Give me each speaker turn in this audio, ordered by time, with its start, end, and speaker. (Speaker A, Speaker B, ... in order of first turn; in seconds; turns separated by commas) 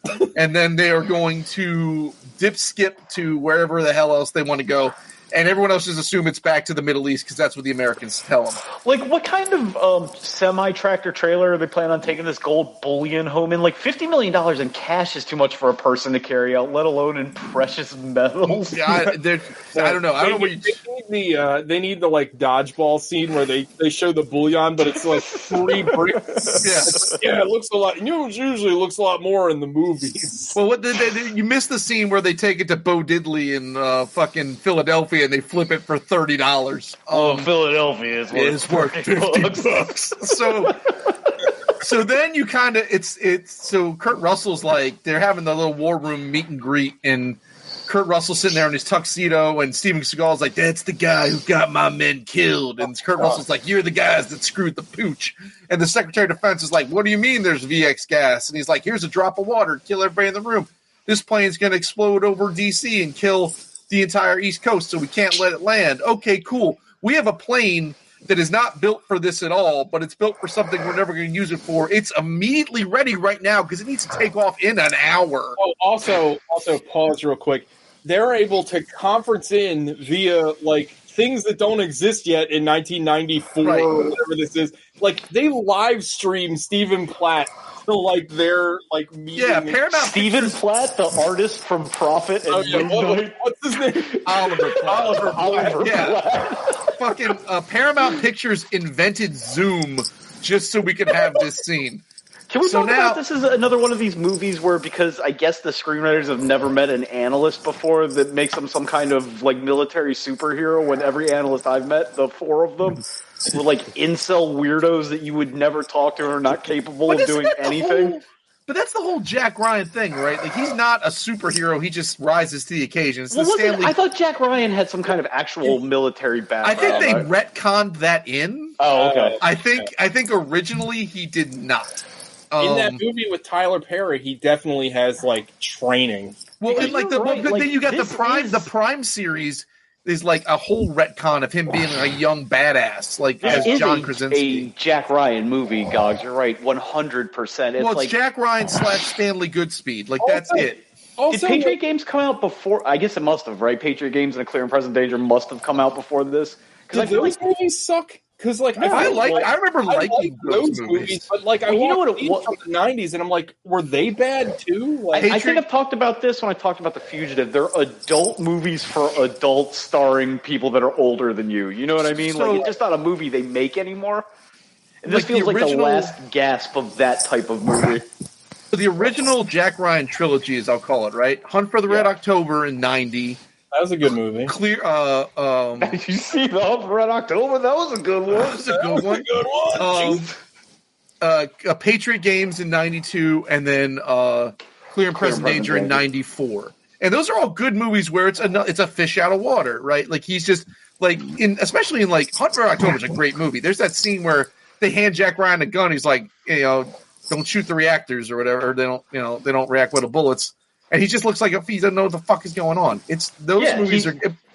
Speaker A: 0.3-8.6, Speaker B: 8.8-19.1, Speaker A: 18.5-20.8, Speaker C: 19.7-30.6, Speaker B: 25.7-27.2, Speaker A: 26.6-27.1, Speaker A: 30.6-37.5, Speaker B: 37.1-41.0, Speaker A: 38.3-40.8, Speaker A: 41.8-75.6, Speaker C: 75.6-89.8, Speaker A: 83.6-83.9, Speaker A: 89.4-90.6, Speaker B: 89.9-93.4, Speaker C: 92.5-94.2, Speaker B: 93.9-96.9, Speaker A: 94.2-96.2, Speaker C: 94.8-95.9, Speaker A: 96.9-102.0, Speaker B: 102.5-118.2, Speaker A: 102.6-103.2, Speaker A: 117.1-124.0, Speaker B: 123.3-127.3, Speaker A: 126.6-128.8, Speaker C: 126.8-127.1, Speaker B: 128.8-129.4, Speaker C: 128.9-129.9, Speaker A: 129.4-131.9, Speaker A: 132.5-133.0, Speaker C: 132.6-136.9, Speaker A: 136.6-144.7, Speaker B: 136.7-138.7, Speaker C: 143.4-144.0, Speaker B: 143.4-148.1, Speaker A: 147.8-150.8, Speaker C: 150.2-151.8, Speaker B: 151.3-157.4, Speaker C: 156.9-165.3, Speaker B: 158.8-159.5, Speaker A: 158.9-161.3, Speaker B: 161.7-162.5, Speaker A: 165.2-165.6, Speaker B: 165.2-174.3, Speaker A: 172.2-172.7, Speaker B: 175.0-178.1, Speaker A: 175.1-176.1, Speaker A: 178.7-183.4, Speaker C: 183.7-184.5, Speaker A: 184.5-186.0, Speaker B: 185.8-188.6, Speaker A: 188.3-190.3, Speaker C: 188.7-190.3, Speaker A: 191.2-214.3, Speaker B: 195.1-196.0, Speaker B: 213.6-214.2